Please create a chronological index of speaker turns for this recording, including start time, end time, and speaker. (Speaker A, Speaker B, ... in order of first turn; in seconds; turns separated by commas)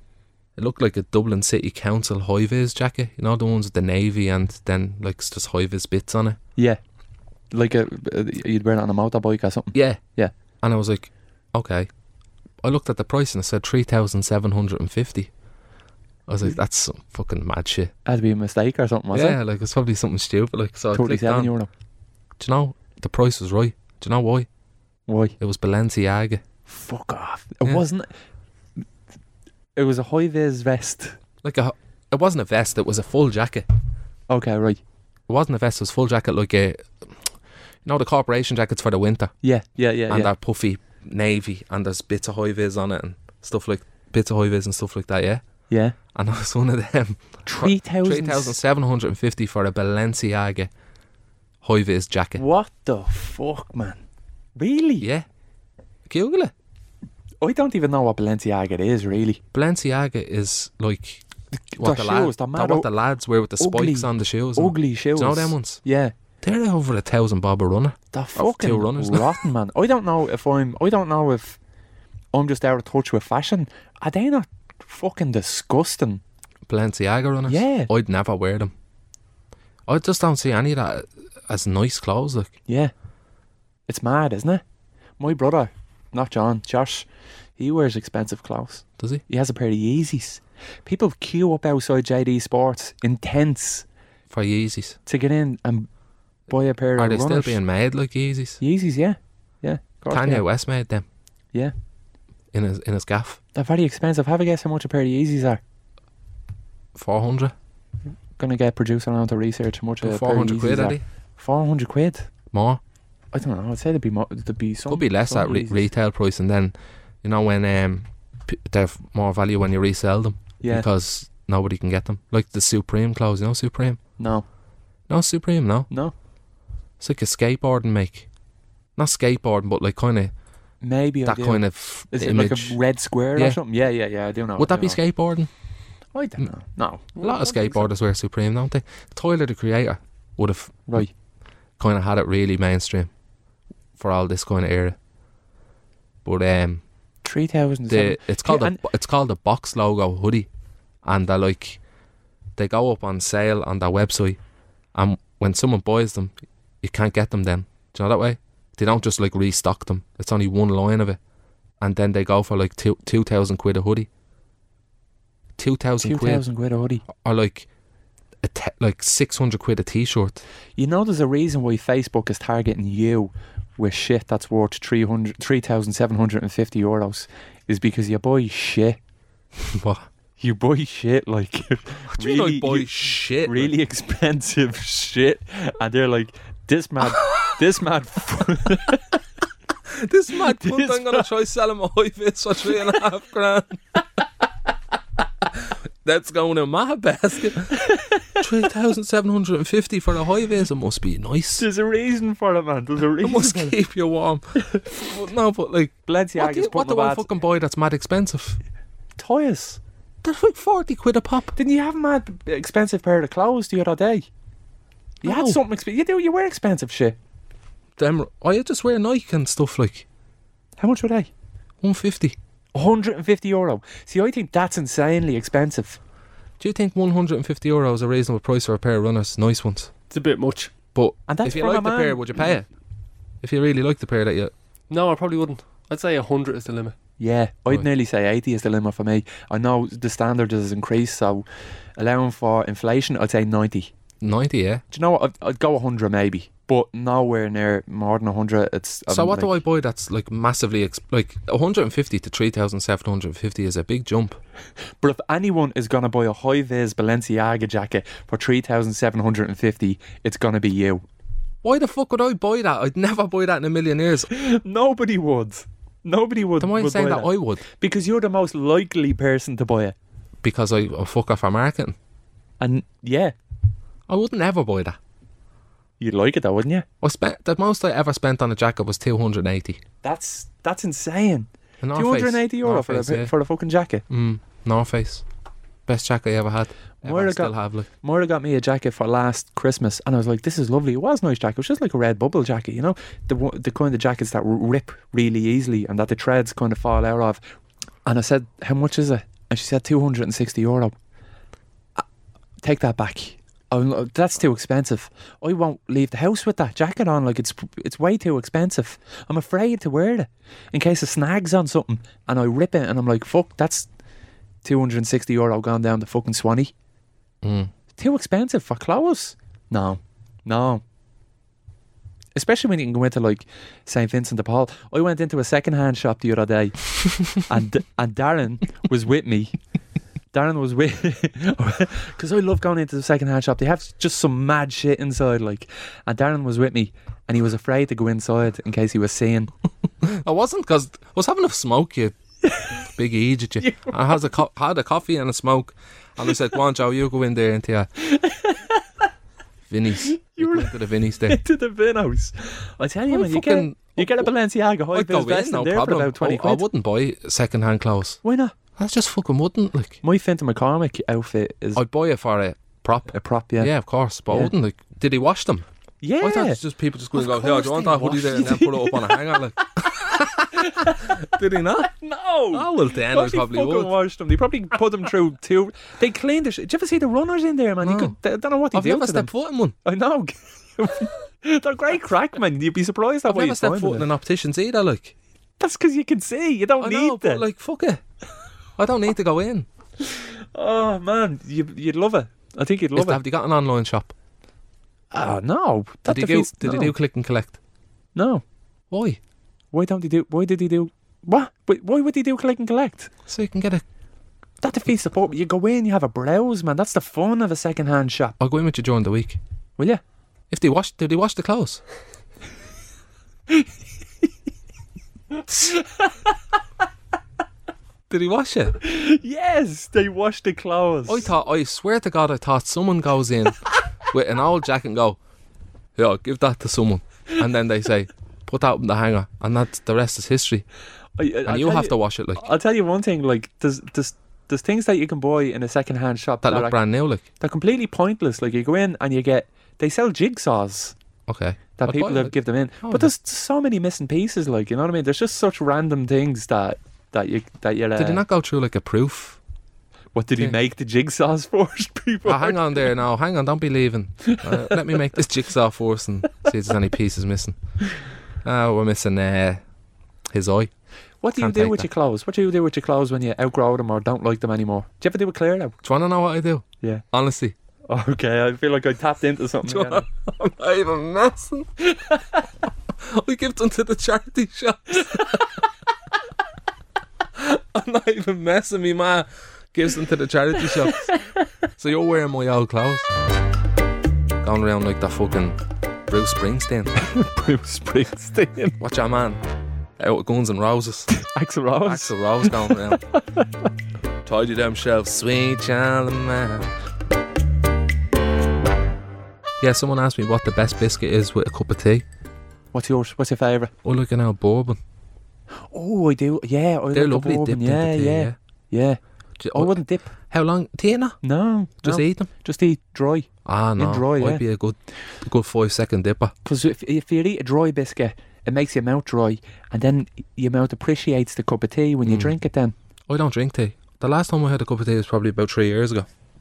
Speaker A: 0.6-6.4, Speaker B: 7.5-10.3, Speaker A: 9.7-10.0, Speaker A: 10.6-11.9, Speaker A: 12.6-15.3, Speaker A: 16.3-17.9, Speaker B: 18.1-19.4, Speaker A: 19.1-21.5, Speaker B: 20.9-21.7, Speaker A: 22.4-24.5, Speaker B: 25.1-25.4, Speaker A: 25.4-26.4, Speaker B: 26.7-28.1, Speaker B: 29.8-31.2, Speaker A: 31.4-33.7, Speaker B: 34.3-34.8, Speaker A: 35.3-37.1, Speaker A: 37.9-39.3, Speaker B: 39.4-40.3, Speaker A: 40.1-45.4, Speaker B: 45.7-46.0, Speaker A: 46.1-50.7, Speaker B: 47.5-48.6, Speaker A: 51.6-52.4, Speaker B: 52.4-54.0, Speaker B: 54.6-55.1, Speaker A: 55.0-55.3, Speaker A: 56.1-56.5, Speaker B: 57.4-59.4, Speaker A: 59.5-61.2, Speaker B: 61.5-62.9, Speaker A: 61.8-65.8, Speaker B: 63.6-66.1, Speaker A: 66.4-69.4, Speaker B: 68.2-71.6, Speaker B: 72.3-76.2, Speaker A: 76.7-78.7, Speaker B: 77.5-77.9, Speaker A: 79.9-82.5, Speaker B: 82.7-82.9, Speaker B: 83.9-84.6, Speaker B: 85.2-87.1, Speaker B: 87.6-93.9, Speaker A: 94.3-95.0, Speaker B: 95.1-95.9, Speaker B: 96.5-97.6, Speaker A: 97.0-98.6, Speaker B: 98.6-100.5, Speaker A: 100.1-101.0, Speaker A: 102.5-103.4, Speaker B: 103.5-105.6, Speaker A: 107.0-107.5, Speaker B: 108.4-112.3, Speaker A: 110.0-111.0, Speaker A: 112.5-112.8, Speaker B: 113.3-115.9, Speaker A: 114.9-124.0, Speaker B: 120.6-120.9, Speaker B: 124.2-124.5, Speaker A: 125.1-125.9, Speaker A: 127.0-128.3, Speaker A: 129.0-130.3, Speaker B: 130.8-135.0, Speaker A: 131.2-132.8, Speaker A: 133.3-133.6, Speaker A: 134.6-135.5, Speaker B: 136.1-137.2, Speaker C: 137.2-137.8, Speaker A: 137.2-141.1, Speaker A: 141.8-143.1, Speaker A: 144.0-145.0, Speaker A: 146.2-146.8, Speaker B: 147.2-148.8, Speaker A: 147.9-150.5, Speaker A: 151.0-151.8, Speaker A: 152.6-154.4, Speaker A: 154.9-161.2, Speaker A: 161.8-164.1, Speaker A: 165.6-166.4, Speaker B: 166.0-167.0, Speaker A: 167.1-167.7, Speaker A: 168.4-170.4, Speaker B: 170.8-179.0, Speaker A: 179.6-180.1, Speaker B: 180.4-189.1, Speaker A: 182.1-183.7, Speaker A: 187.1-187.6, Speaker A: 189.9-193.8, Speaker B: 190.4-191.3, Speaker A: 195.5-197.9, Speaker B: 197.8-198.4, Speaker A: 198.4-201.7, Speaker B: 201.6-203.8, Speaker A: 203.2-208.6, Speaker B: 206.1-207.3, Speaker B: 209.2-209.8, Speaker A: 210.2-211.6, Speaker B: 211.6-214.3, Speaker B: 215.2-217.2, Speaker A: 215.2-215.6, Speaker A: 218.0-220.1, Speaker B: 220.8-221.3, Speaker A: 221.8-222.4, Speaker B: 222.8-226.0, Speaker A: 226.6-229.9, Speaker C: 230.1-230.7, Speaker A: 230.9-232.7, Speaker B: 231.3-232.5, Speaker A: 233.4-234.5, Speaker C: 234.9-236.9, Speaker B: 237.2-243.9, Speaker A: 244.2-244.8, Speaker B: 244.9-249.6, Speaker A: 249.1-254.4, Speaker B: 255.0-261.0, Speaker A: 261.6-264.3, Speaker B: 264.3-269.9, Speaker A: 266.6-267.6, Speaker A: 270.4-272.0, Speaker B: 272.6-273.4, Speaker A: 274.1-275.0, Speaker B: 276.0-276.9, Speaker A: 277.0-279.8, Speaker B: 280.0-284.0, Speaker A: 281.8-283.3, Speaker A: 284.1-285.2, Speaker A: 285.9-287.9, Speaker B: 287.0-297.4, Speaker B: 298.1-300.9, Speaker B: 302.6-313.9, Speaker B: 314.6-316.7, Speaker A: 317.4-317.7, Speaker B: 318.0-320.8, Speaker B: 322.4-329.6, Speaker B: 330.3-339.5, Speaker A: 340.0-342.2, Speaker B: 342.5-342.8, Speaker A: 342.8-347.9, Speaker B: 343.6-343.9, Speaker B: 348.0-348.9, Speaker A: 349.7-351.4, Speaker B: 350.0-356.7, Speaker A: 353.1-354.3, Speaker A: 354.9-358.2, Speaker B: 358.2-358.6, Speaker A: 358.8-360.0, Speaker B: 360.0-361.8, Speaker A: 361.8-365.7, Speaker B: 363.1-363.7, Speaker B: 366.0-366.6, Speaker A: 366.2-371.9, Speaker B: 367.1-369.6, Speaker B: 370.5-371.2, Speaker B: 371.8-379.3, Speaker A: 372.5-373.9, Speaker A: 377.8-378.2, Speaker A: 378.7-379.8, Speaker B: 379.8-384.1, Speaker A: 383.3-385.1, Speaker B: 385.6-387.4, Speaker A: 386.8-388.0, Speaker A: 388.8-389.7, Speaker B: 390.0-393.2, Speaker A: 392.9-394.1, Speaker B: 395.1-396.9, Speaker A: 396.1-397.6, Speaker B: 398.1-398.4, Speaker A: 398.9-399.2, Speaker B: 399.7-403.1, Speaker A: 403.3-403.8, Speaker B: 404.6-408.4, Speaker A: 408.4-409.4, Speaker A: 410.5-411.8, Speaker B: 415.4-416.2, Speaker A: 418.1-418.8, Speaker B: 418.8-421.3, Speaker A: 421.1-425.2, Speaker A: 426.0-430.6, Speaker B: 431.2-436.8, Speaker A: 431.5-432.4, Speaker A: 436.4-437.2, Speaker B: 437.4-440.9, Speaker A: 441.3-443.1, Speaker B: 441.8-448.2, Speaker A: 448.0-449.4, Speaker B: 450.1-452.9, Speaker A: 452.2-457.6, Speaker B: 454.3-454.9, Speaker A: 458.4-459.6, Speaker A: 460.3-460.7, Speaker B: 461.2-465.8, Speaker A: 461.4-461.9, Speaker A: 465.8-467.6, Speaker B: 467.9-470.1, Speaker A: 469.6-471.9, Speaker A: 473.0-475.6, Speaker A: 477.4-481.1, Speaker A: 481.8-483.1, Speaker A: 484.4-486.9, Speaker B: 487.0-488.8, Speaker A: 488.8-489.4, Speaker A: 490.0-491.1, Speaker B: 491.1-493.5, Speaker A: 491.9-493.0, Speaker A: 494.2-496.7, Speaker A: 499.6-502.1, Speaker B: 502.7-503.7, Speaker A: 503.8-504.8, Speaker B: 505.7-509.0, Speaker A: 506.9-508.4, Speaker A: 509.4-511.2, Speaker B: 509.5-510.1, Speaker B: 511.2-514.4, Speaker A: 511.8-512.3, Speaker A: 513.5-516.3, Speaker B: 516.5-522.7, Speaker A: 522.1-522.3, Speaker A: 523.1-526.1